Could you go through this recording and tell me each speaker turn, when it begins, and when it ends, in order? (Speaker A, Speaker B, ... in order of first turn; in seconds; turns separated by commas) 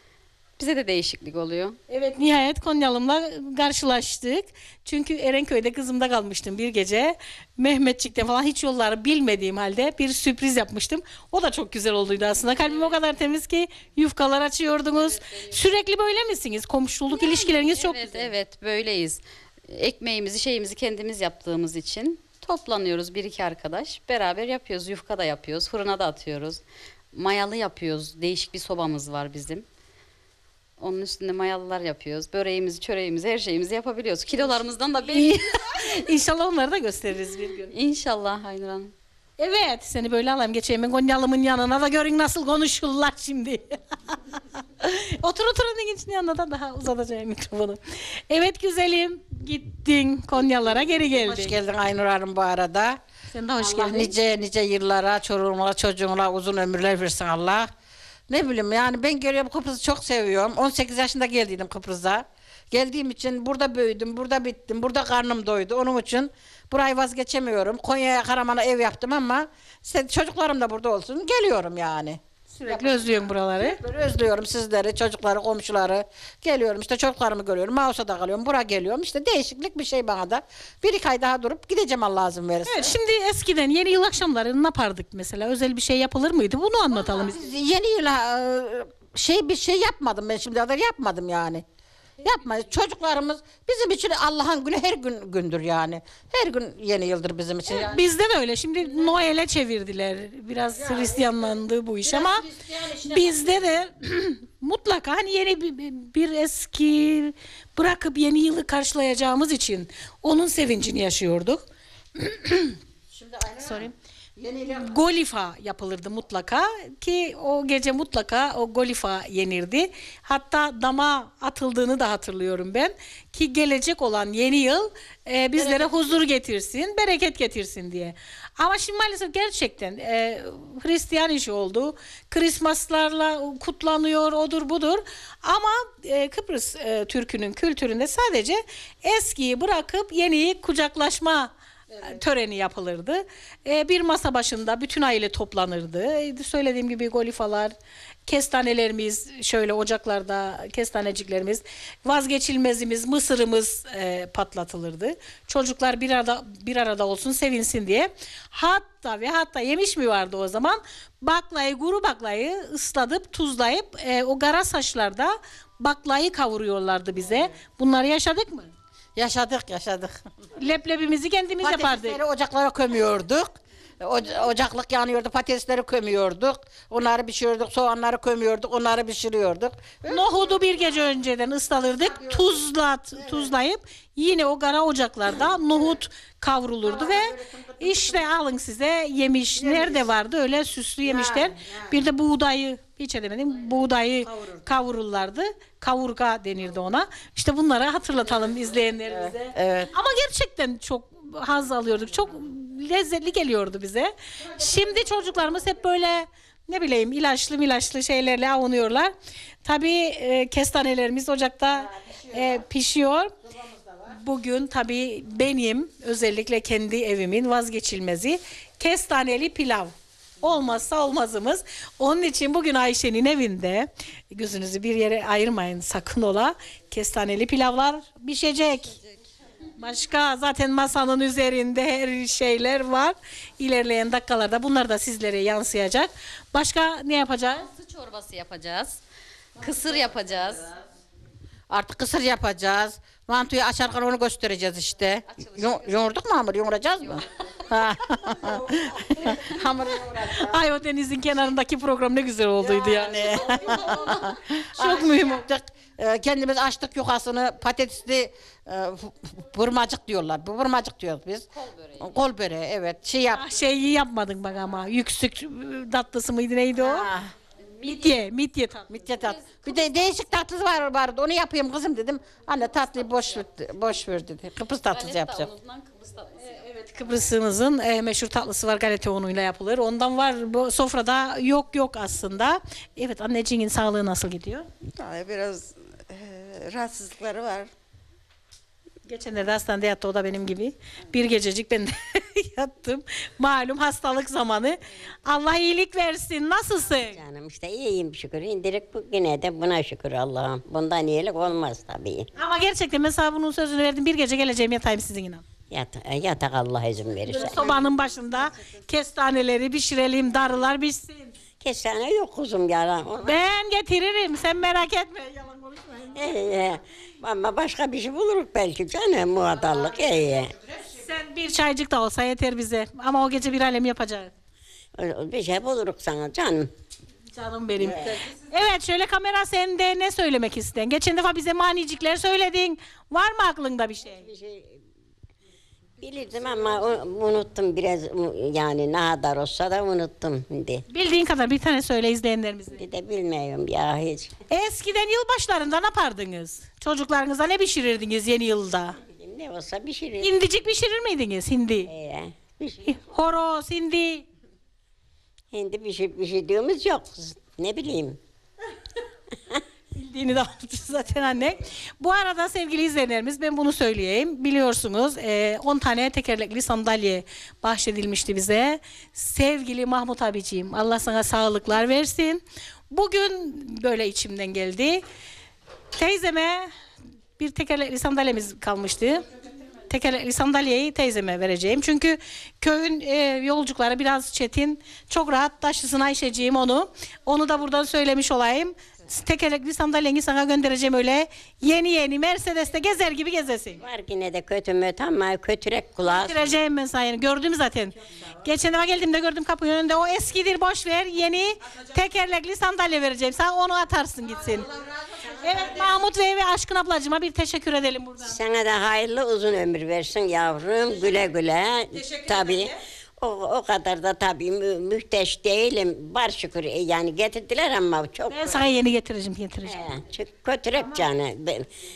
Speaker A: 0.6-1.8, Speaker B: 1.9-18.3, Speaker A: 15.0-15.6, Speaker A: 17.1-26.6, Speaker A: 27.1-29.6, Speaker A: 30.8-35.9, Speaker B: 35.1-37.7, Speaker A: 37.7-38.9, Speaker B: 39.4-44.2, Speaker B: 44.8-51.6, Speaker C: 51.1-53.0, Speaker B: 53.3-54.1, Speaker C: 53.6-57.7, Speaker C: 58.3-82.9, Speaker B: 72.5-73.8, Speaker B: 82.7-87.4, Speaker C: 87.1-91.7, Speaker C: 92.2-98.0, Speaker B: 97.7-102.5, Speaker C: 100.8-103.6, Speaker B: 103.1-111.6, Speaker B: 112.2-112.8, Speaker C: 113.1-115.0, Speaker B: 113.6-113.9, Speaker B: 114.7-147.8, Speaker B: 148.3-168.7, Speaker C: 169.2-170.2, Speaker B: 170.6-172.2, Speaker C: 171.6-180.8, Speaker B: 180.1-209.1, Speaker C: 181.9-182.6, Speaker C: 183.2-183.5, Speaker C: 186.8-188.2, Speaker C: 189.6-190.0, Speaker C: 191.0-192.0, Speaker C: 194.3-194.6, Speaker B: 209.6-213.3, Speaker C: 213.6-214.0, Speaker B: 214.1-229.0, Speaker B: 229.8-237.7, Speaker A: 237.6-239.0, Speaker A: 239.6-240.7, Speaker C: 241.7-250.6, Speaker A: 245.3-246.2, Speaker A: 247.0-247.3, Speaker B: 248.2-249.4, Speaker B: 250.4-255.3, Speaker C: 252.9-261.4, Speaker A: 261.5-262.2, Speaker C: 262.0-263.5, Speaker B: 263.3-267.1, Speaker C: 266.8-267.3, Speaker A: 267.8-268.2, Speaker B: 267.8-269.1, Speaker C: 268.9-275.5, Speaker A: 269.1-269.9, Speaker A: 274.9-276.7, Speaker B: 276.4-284.7, Speaker D: 285.0-287.7, Speaker B: 289.1-297.2, Speaker E: 296.9-302.3, Speaker B: 302.4-305.4, Speaker E: 305.7-307.8, Speaker B: 307.3-311.4, Speaker D: 307.4-308.2, Speaker E: 311.6-313.4, Speaker B: 313.2-316.2, Speaker E: 316.1-320.5, Speaker B: 320.9-324.3, Speaker E: 325.0-326.7, Speaker B: 327.3-334.3, Speaker E: 327.8-328.2, Speaker E: 334.1-334.8, Speaker E: 336.0-340.8, Speaker B: 340.9-342.8, Speaker E: 342.8-344.3, Speaker B: 344.5-349.0, Speaker E: 349.0-350.3, Speaker B: 350.2-351.9, Speaker E: 351.9-353.0, Speaker B: 352.8-354.3, Speaker E: 355.5-358.2, Speaker B: 359.9-375.0, Speaker B: 376.0-376.7, Speaker B: 377.4-379.3, Speaker B: 379.9-393.8, Speaker E: 393.8-396.4, Speaker B: 396.0-404.7, Speaker B: 405.3-408.4, Speaker E: 408.2-418.6, Speaker B: 418.3-419.8, Speaker E: 419.6-421.7